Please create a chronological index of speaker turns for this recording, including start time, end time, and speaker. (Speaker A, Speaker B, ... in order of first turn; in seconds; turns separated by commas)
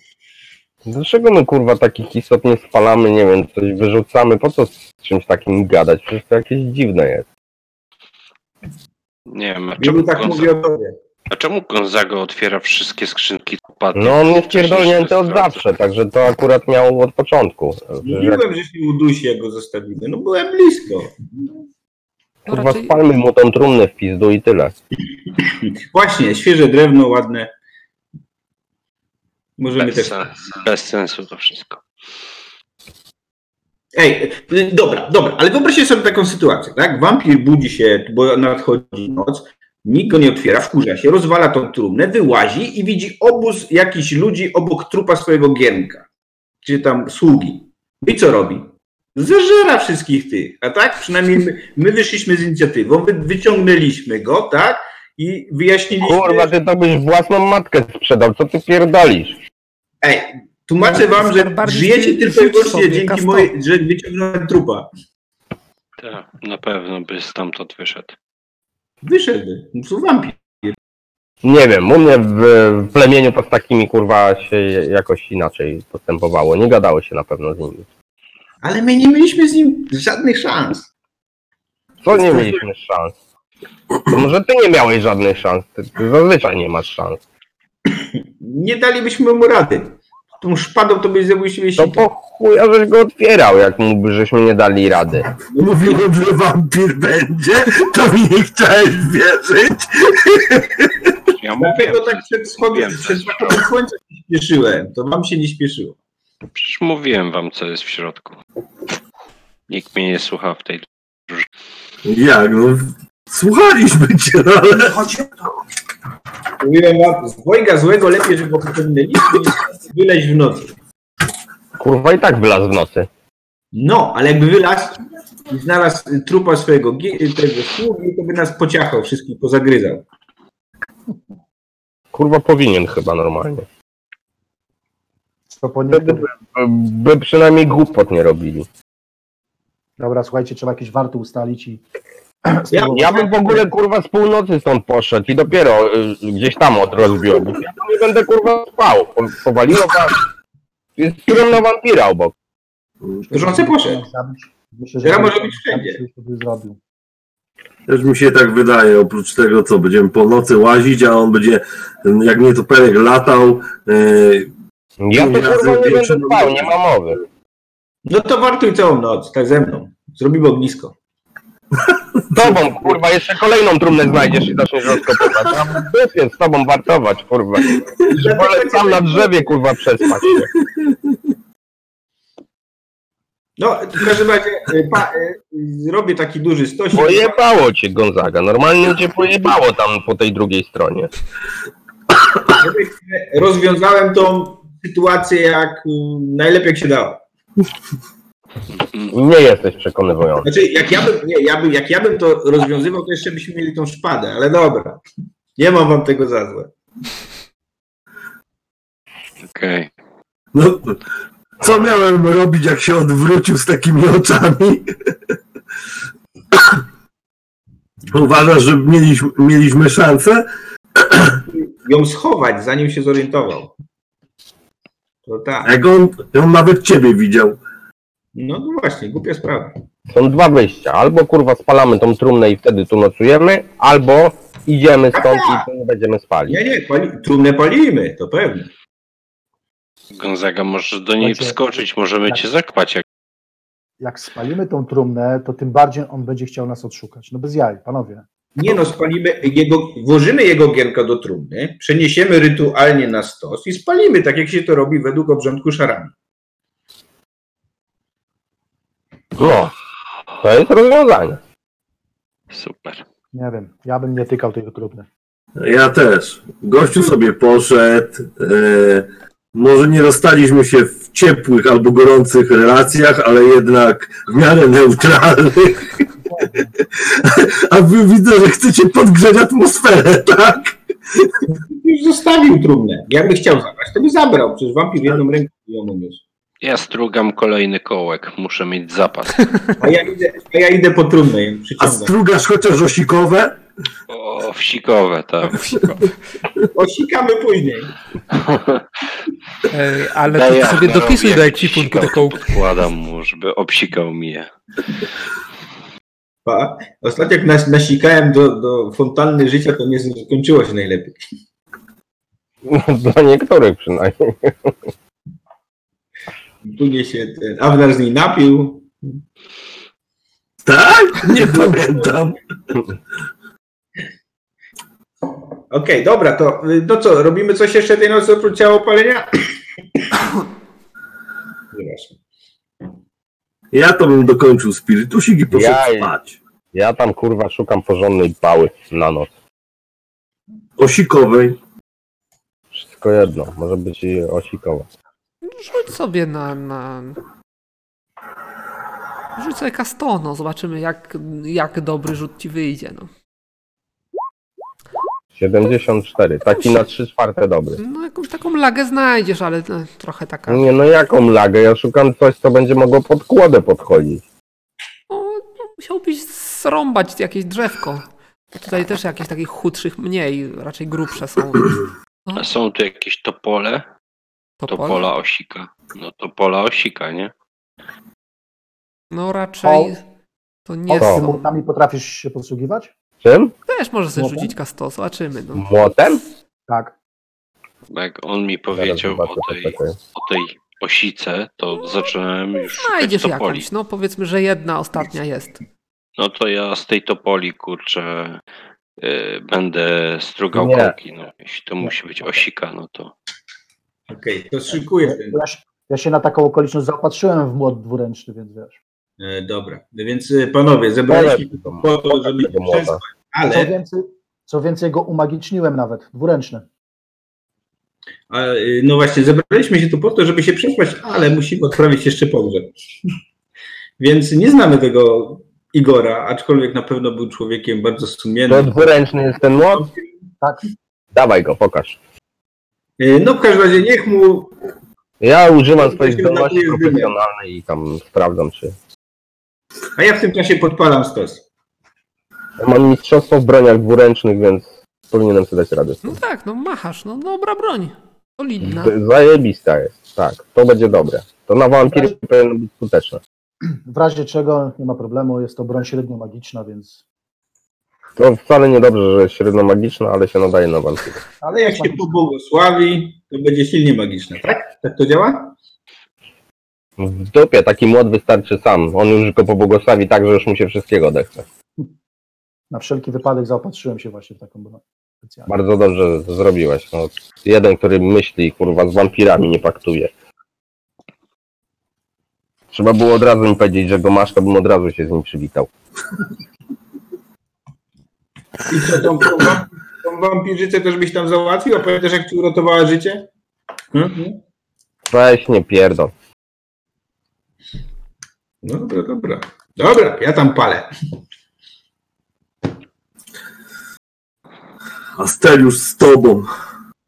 Speaker A: 0.8-7.2, Speaker B: 9.3-10.5, Speaker C: 9.8-10.9, Speaker B: 11.3-15.6, Speaker A: 13.9-18.4, Speaker C: 18.0-21.5, Speaker A: 22.4-24.7, Speaker D: 22.5-23.0, Speaker C: 25.4-27.5, Speaker C: 29.6-30.2, Speaker B: 29.8-31.8, Speaker C: 34.0-46.0, Speaker C: 46.6-56.5, Speaker A: 56.0-59.4, Speaker C: 60.0-64.9, Speaker D: 60.8-63.5, Speaker B: 66.0-68.2, Speaker C: 69.0-70.8, Speaker A: 71.4-77.9, Speaker C: 78.6-80.9, Speaker A: 82.0-83.2, Speaker A: 84.1-87.2, Speaker C: 87.9-92.0, Speaker A: 91.8-95.3, Speaker C: 95.5-96.0, Speaker E: 95.6-101.2, Speaker B: 101.3-103.7, Speaker C: 101.6-106.0, Speaker B: 106.5-108.4, Speaker B: 109.7-111.5, Speaker E: 112.0-115.1, Speaker C: 116.6-120.8, Speaker A: 121.8-123.1, Speaker C: 123.7-130.0, Speaker A: 132.1-133.7, Speaker F: 135.5-136.3, Speaker A: 135.9-138.7, Speaker F: 140.0-141.8, Speaker F: 142.4-143.6, Speaker C: 142.7-143.6, Speaker A: 142.9-150.2, Speaker A: 151.0-152.3, Speaker F: 153.2-156.8, Speaker C: 153.3-154.0, Speaker C: 155.0-156.0, Speaker E: 157.9-164.5, Speaker A: 165.0-167.2, Speaker E: 165.1-166.8, Speaker C: 168.1-170.9, Speaker E: 171.8-172.9, Speaker A: 172.3-180.5, Speaker C: 178.1-179.6, Speaker E: 180.6-180.9, Speaker C: 183.6-187.4, Speaker A: 186.9-191.1, Speaker C: 192.6-197.2, Speaker B: 198.8-199.1, Speaker A: 199.1-200.5, Speaker C: 200.4-205.0, Speaker C: 205.6-206.7, Speaker B: 209.4-209.9, Speaker E: 210.5-211.0, Speaker E: 211.6-214.9, Speaker E: 218.1-220.4, Speaker E: 221.0-221.4, Speaker C: 221.5-223.7, Speaker C: 225.2-225.7, Speaker E: 225.6-227.6, Speaker C: 228.3-229.7, Speaker A: 230.1-236.6, Speaker C: 235.1-235.7, Speaker C: 236.5-238.7, Speaker B: 240.1-243.0, Speaker F: 241.2-241.6, Speaker F: 244.0-248.2, Speaker C: 248.6-256.1, Speaker A: 259.4-259.7, Speaker A: 260.4-261.4, Speaker B: 262.5-263.0, Speaker F: 263.3-265.1, Speaker E: 265.6-275.9, Speaker F: 276.3-276.7, Speaker E: 277.0-281.3, Speaker C: 281.7-286.2, Speaker B: 286.6-289.4, Speaker C: 289.8-292.1, Speaker E: 291.8-293.6, Speaker B: 294.1-295.6, Speaker D: 295.4-296.1, Speaker C: 296.7-297.9, Speaker B: 298.3-298.8, Speaker D: 299.7-302.6, Speaker B: 300.3-304.5, Speaker C: 306.4-311.2, Speaker A: 312.6-314.8, Speaker C: 316.6-319.2, Speaker E: 320.6-322.4, Speaker C: 321.2-322.1, Speaker C: 325.7-329.4, Speaker C: 331.7-332.1, Speaker E: 333.7-336.4, Speaker A: 335.5-336.1, Speaker A: 336.7-339.3, Speaker E: 340.8-341.6, Speaker A: 342.7-344.9, Speaker D: 345.4-347.2, Speaker D: 349.4-353.1, Speaker A: 355.4-357.8, Speaker D: 356.5-356.8, Speaker D: 357.8-360.6, Speaker A: 360.5-364.2, Speaker D: 365.1-372.4, Speaker B: 372.4-373.9, Speaker D: 374.6-375.0, Speaker B: 374.7-377.3, Speaker D: 379.1-380.0, Speaker F: 379.6-379.9, Speaker D: 380.7-381.5, Speaker F: 380.9-382.9, Speaker A: 381.0-381.3, Speaker A: 383.2-383.5, Speaker D: 383.7-385.7, Speaker F: 384.1-384.5, Speaker A: 385.6-386.2, Speaker F: 386.7-386.9, Speaker B: 387.9-393.7, Speaker A: 388.7-390.0, Speaker D: 392.6-395.6, Speaker B: 396.2-398.4, Speaker B: 399.0-403.1, Speaker A: 400.5-400.9, Speaker C: 404.1-405.4, Speaker F: 405.0-408.8, Speaker C: 409.2-413.7, Speaker A: 411.1-413.0, Speaker F: 413.5-416.7, Speaker C: 418.3-422.7, Speaker C: 424.0-428.9, Speaker A: 428.5-429.9, Speaker C: 429.6-430.1, Speaker A: 431.1-432.0, Speaker C: 433.0-434.5, Speaker A: 435.2-438.8, Speaker C: 435.8-437.1, Speaker C: 439.9-441.4, Speaker A: 442.6-446.2, Speaker D: 446.0-448.9, Speaker A: 448.6-453.2, Speaker F: 451.9-452.1, Speaker F: 453.6-457.0, Speaker A: 458.2-461.2, Speaker F: 461.4-462.2, Speaker C: 461.5-465.5, Speaker A: 467.0-471.4, Speaker F: 472.7-475.5, Speaker A: 475.5-480.1, Speaker A: 482.7-485.7, Speaker C: 488.7-493.3, Speaker C: 493.9-494.4, Speaker A: 495.1-496.1, Speaker C: 498.6-500.9, Speaker E: 505.2-506.5